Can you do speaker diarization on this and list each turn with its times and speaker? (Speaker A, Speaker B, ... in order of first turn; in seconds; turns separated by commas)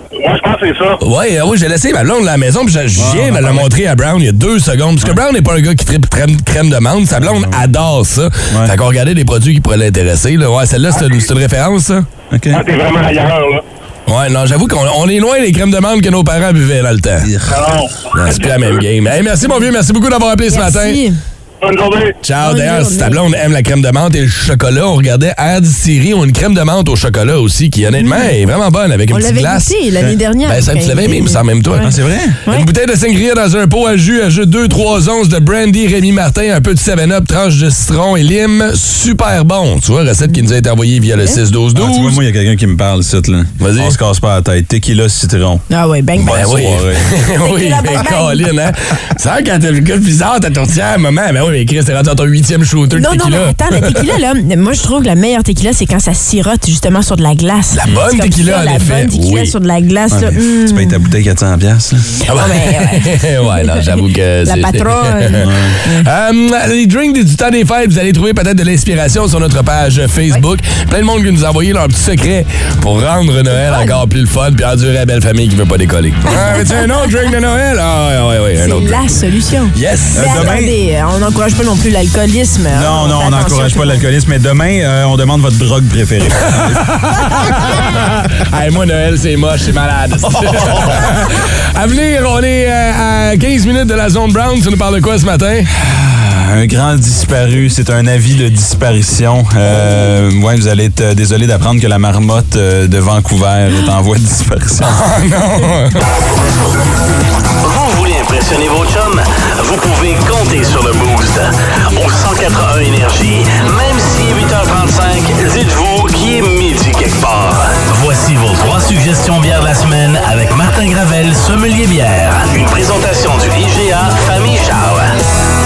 Speaker A: 0.2-1.0, Speaker B: 1.0-12.1, Speaker C: 3.0-3.7, Speaker C: 7.2-7.6, Speaker A: 10.9-11.2, Speaker C: 12.3-12.6, Speaker A: 12.5-13.6, Speaker B: 14.1-17.3, Speaker C: 17.2-17.6, Speaker A: 17.5-18.8, Speaker B: 18.1-21.0, Speaker D: 20.5-21.2, Speaker A: 21.6-22.1, Speaker B: 22.2-29.8, Speaker D: 22.4-23.2, Speaker D: 28.0-28.3, Speaker D: 29.1-31.9, Speaker B: 30.4-31.9, Speaker C: 31.8-32.4, Speaker B: 32.4-42.2, Speaker C: 41.7-45.6, Speaker B: 43.6-44.0, Speaker D: 45.7-46.6, Speaker B: 46.2-54.0, Speaker C: 46.2-47.1, Speaker D: 47.4-48.5, Speaker D: 52.9-61.0, Speaker B: 57.7-59.5, Speaker C: 60.1-62.1, Speaker B: 62.3-79.1, Speaker D: 62.3-63.9, Speaker D: 64.4-66.1, Speaker C: 65.4-65.8, Speaker D: 73.5-74.0, Speaker D: 76.3-76.8, Speaker D: 78.6-84.0, Speaker B: 79.7-80.5, Speaker C: 80.1-80.7, Speaker C: 82.7-86.8, Speaker B: 86.6-95.7, Speaker C: 95.7-105.0, Speaker B: 104.8-106.0, Speaker E: 107.6-125.2